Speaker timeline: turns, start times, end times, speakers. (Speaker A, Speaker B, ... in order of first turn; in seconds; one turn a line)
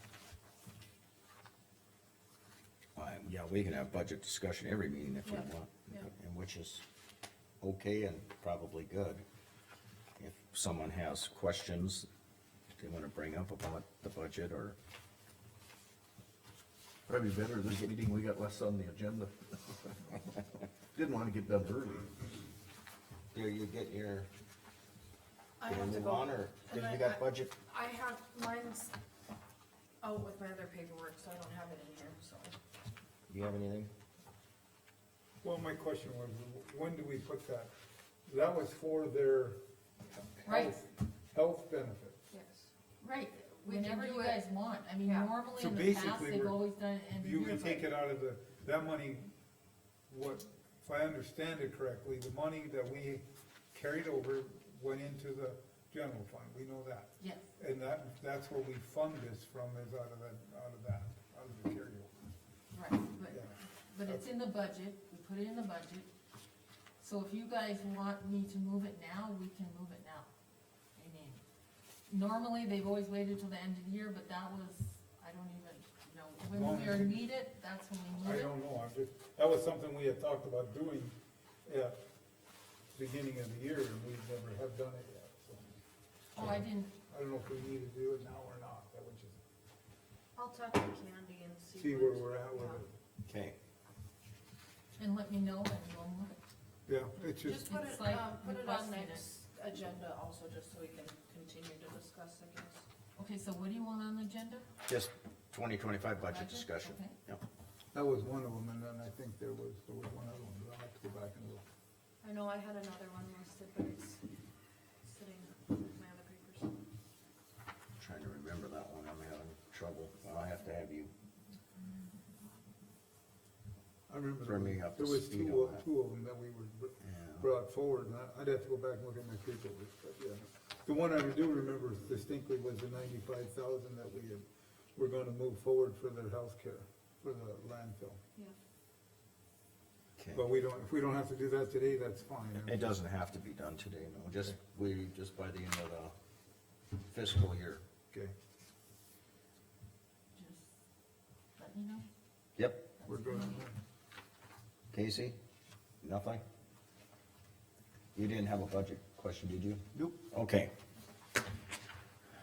Speaker A: 3.0-6.8
Speaker B: 5.2-6.1
Speaker A: 7.6-9.2
Speaker A: 10.2-12.1
Speaker A: 12.8-14.8
Speaker C: 17.1-20.2
Speaker C: 20.9-22.1
Speaker A: 23.3-24.3
Speaker B: 25.6-28.9
Speaker A: 25.7-27.6
Speaker B: 30.0-32.6
Speaker A: 33.3-33.9
Speaker D: 35.4-37.7
Speaker D: 38.3-39.6
Speaker D: 40.1-42.2
Speaker E: 40.5-40.8
Speaker B: 42.3-42.7
Speaker E: 43.0-47.9
Speaker B: 43.6-44.4
Speaker B: 45.0-45.4
Speaker D: 45.5-46.6
Speaker D: 47.2-49.3
Speaker D: 50.1-62.1
Speaker E: 62.7-66.1
Speaker D: 63.3-63.5
Speaker E: 67.0-70.3
Speaker E: 71.0-71.4
Speaker E: 72.1-78.5
Speaker D: 76.5-77.3
Speaker D: 78.2-82.0
Speaker D: 83.0-85.8
Speaker E: 86.3-86.9
Speaker D: 86.4-89.4
Speaker B: 90.4-92.8
Speaker D: 91.7-92.9
Speaker A: 93.2-93.6
Speaker E: 95.0-96.4
Speaker D: 96.9-97.7
Speaker E: 97.5-99.2
Speaker B: 97.5-102.9
Speaker E: 103.2-104.7
Speaker A: 104.9-107.4
Speaker E: 106.3-107.2
Speaker D: 107.9-111.6
Speaker B: 112.2-114.2
Speaker B: 115.0-116.8
Speaker A: 118.0-121.1
Speaker D: 124.1-134.4
Speaker A: 124.4-125.8
Speaker A: 127.0-127.5
Speaker D: 135.0-138.2
Speaker A: 140.2-140.4
Speaker D: 140.3-142.8
Speaker A: 142.6-146.1
Speaker A: 147.0-147.8
Speaker E: 150.3-150.7
Speaker E: 151.6-152.1
Speaker A: 152.6-152.9
Speaker E: 153.0-153.7
Speaker D: 153.1-153.8
Speaker A: 154.9-155.4
Speaker A: 156.0-156.4
Speaker A: 158.2-160.7